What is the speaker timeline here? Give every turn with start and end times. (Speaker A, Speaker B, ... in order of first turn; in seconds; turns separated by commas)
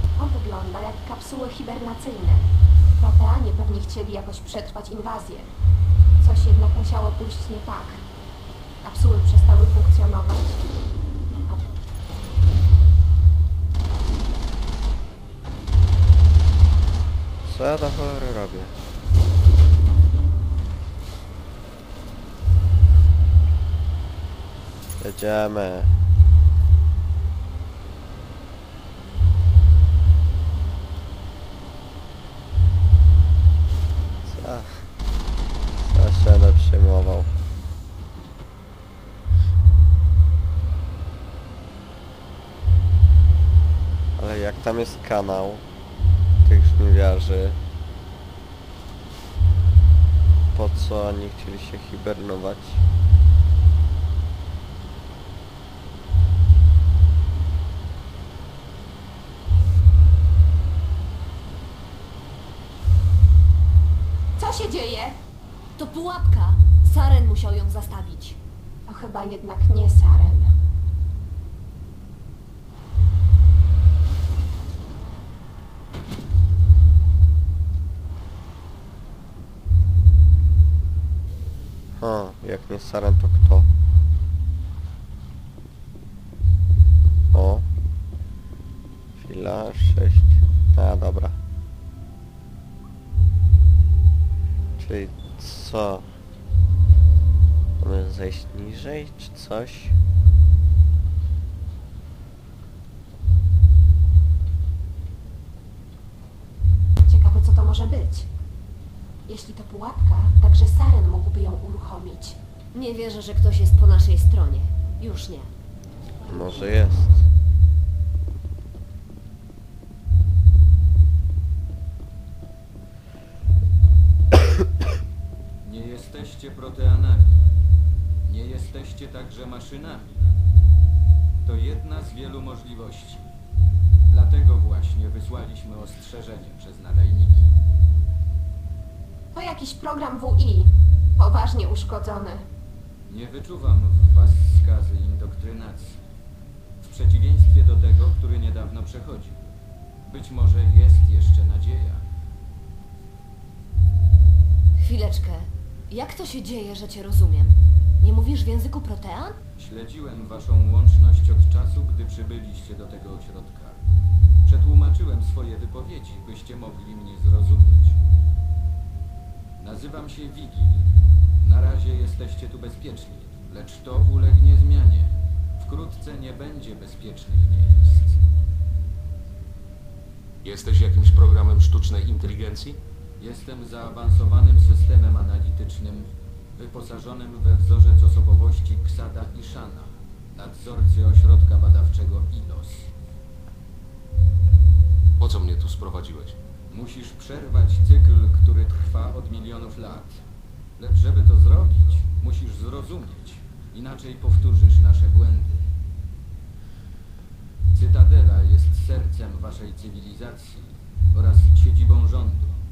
Speaker A: 0.2-5.5, Speaker A: 6.2-8.0, Speaker A: 8.8-10.6, Speaker B: 17.4-18.8, Speaker B: 25.0-25.9, Speaker B: 34.2-34.9, Speaker B: 35.8-37.3, Speaker B: 44.2-45.6, Speaker B: 46.4-47.6, Speaker B: 50.5-52.8, Speaker A: 64.4-65.2, Speaker C: 65.8-68.4, Speaker A: 68.9-70.5, Speaker B: 82.0-83.7, Speaker B: 87.3-87.7, Speaker B: 89.2-91.4, Speaker B: 94.8-96.1, Speaker B: 97.8-100.0, Speaker A: 107.1-108.3, Speaker A: 109.3-112.4, Speaker C: 112.7-115.5, Speaker B: 116.3-117.2, Speaker D: 125.6-127.4, Speaker D: 128.2-130.2, Speaker D: 131.4-133.3, Speaker D: 134.1-137.5, Speaker A: 139.3-142.5, Speaker D: 143.1-146.0, Speaker D: 146.8-149.4, Speaker D: 150.1-152.0, Speaker C: 154.8-159.4, Speaker D: 159.6-163.8, Speaker D: 164.4-168.0, Speaker D: 169.6-170.8, Speaker D: 171.4-178.2, Speaker E: 180.4-182.8, Speaker D: 183.2-192.9, Speaker E: 195.2-196.4, Speaker D: 196.7-200.2, Speaker D: 200.8-205.7, Speaker D: 207.7-212.5